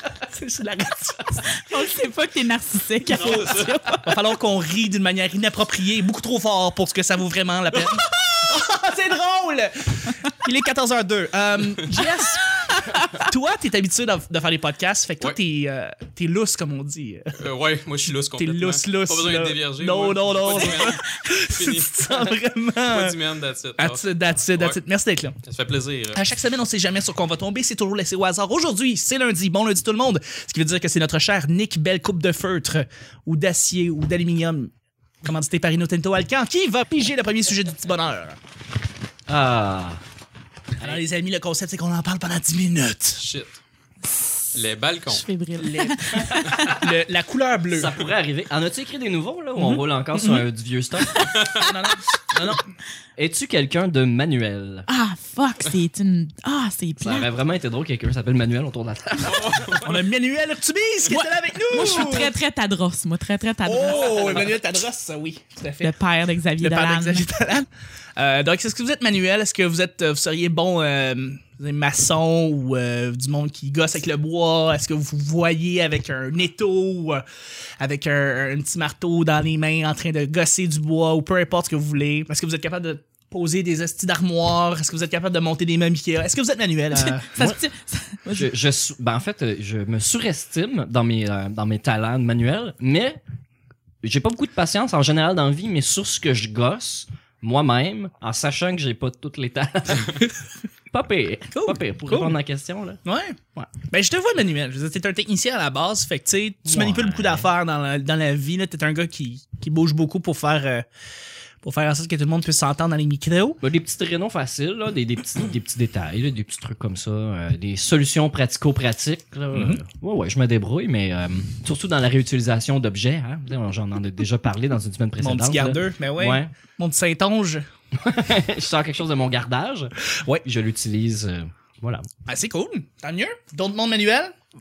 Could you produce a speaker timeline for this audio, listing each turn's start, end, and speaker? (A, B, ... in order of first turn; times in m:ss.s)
0:00.2-0:01.6 A
0:01.5-0:04.2 B
0:03.1-0:03.8 C
0:04.0-0:17.4 A
0:17.4-0:24.8 C
0:18.4-0:23.2 A
0:23.8-0:25.4 A
0:25.4-0:26.2 C
0:26.1-0:34.7 A
0:35.2-0:38.4 A
0:39.3-0:40.0 D
0:40.8-0:43.2 A
0:43.2-0:43.6 C
0:44.5-0:45.2 C
0:45.1-0:46.9 B
0:45.6-0:47.9 A
0:47.7-0:51.3 D
0:49.6-0:50.4 A
0:51.1-0:51.5 B
0:51.4-0:51.6 C
0:51.5-0:52.6 A
0:53.2-0:54.9 D
0:54.9-0:57.3 B
0:57.0-0:59.8 D
0:59.2-0:59.9 C
0:59.8-1:02.3 A
1:01.1-1:04.5 B
1:03.6-1:05.9 A
1:05.8-1:07.2 B
1:06.6-1:17.2 A
1:17.8-1:27.6 A
1:26.9-1:28.5 B
1:28.3-1:33.2 D
1:34.0-1:40.2 D
1:40.9-1:43.0 D
1:41.5-1:42.4 A
1:43.0-1:43.4 A
1:43.9-1:50.9 A
1:46.6-1:47.5 D
1:51.6-1:53.6 A
1:53.6-2:06.5 D
1:59.5-1:59.8 A
2:05.2-2:07.6 A
2:07.9-2:12.1 D
2:12.2-2:14.3 A